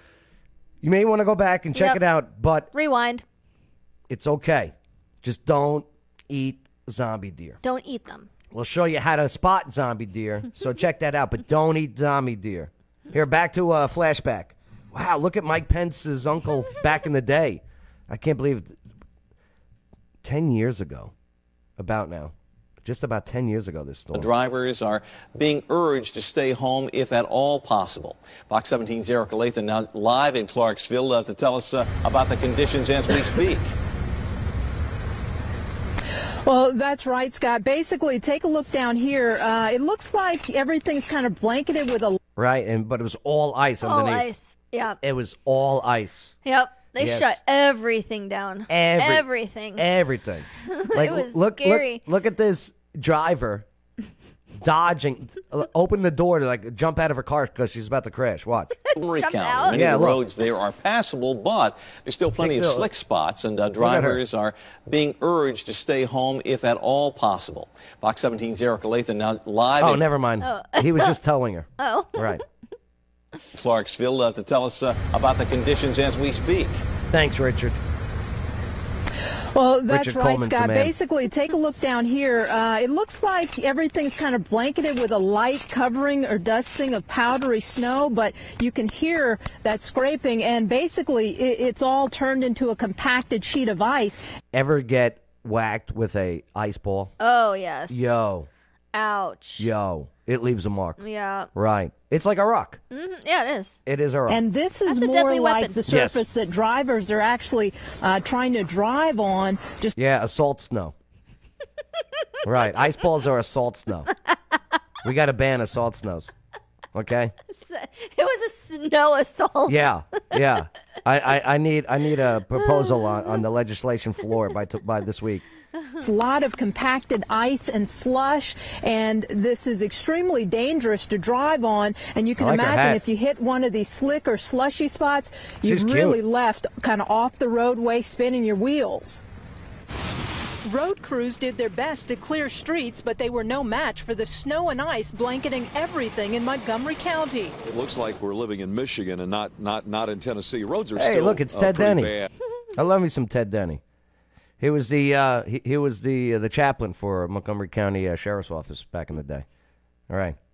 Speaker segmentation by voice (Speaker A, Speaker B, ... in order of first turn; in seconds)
Speaker A: 0.8-2.7, 4.1-7.6, 8.5-18.8, 20.2-21.1, 21.8-24.3, 42.4-44.3, 45.0-46.3, 47.0-47.4, 48.7-53.6, 54.6-58.7, 59.7-60.2, 62.4-62.9, 63.8-64.2, 69.8-72.4, 77.1-77.8, 79.9-80.9, 94.5-97.1, 97.9-98.5, 99.6-101.0, 101.5-102.8, 103.8-104.4, 105.9-106.2, 110.0-110.9, 112.4-114.1, 115.0-116.3, 116.9-117.3, 119.7-125.4, 132.4-133.0, 135.6-136.2, 150.9-152.1, 152.8-153.8, 154.6-159.4, 160.1-160.4
Speaker B: 1.7-2.0, 2.7-3.2, 7.6-8.3, 43.8-45.0, 46.4-49.9, 50.6-52.0, 59.1-59.9, 70.4-71.1, 71.8-72.4, 97.2-98.1, 98.9-99.7, 101.0-101.5, 102.9-103.8, 104.9-105.8, 117.5-119.9, 122.7-123.1
Speaker C: 24.1-33.7, 59.0-70.0, 73.5-76.8
Speaker D: 36.4-42.2, 79.5-94.2, 104.3-110.0, 126.0-139.2, 140.6-147.5
Speaker E: 147.6-152.3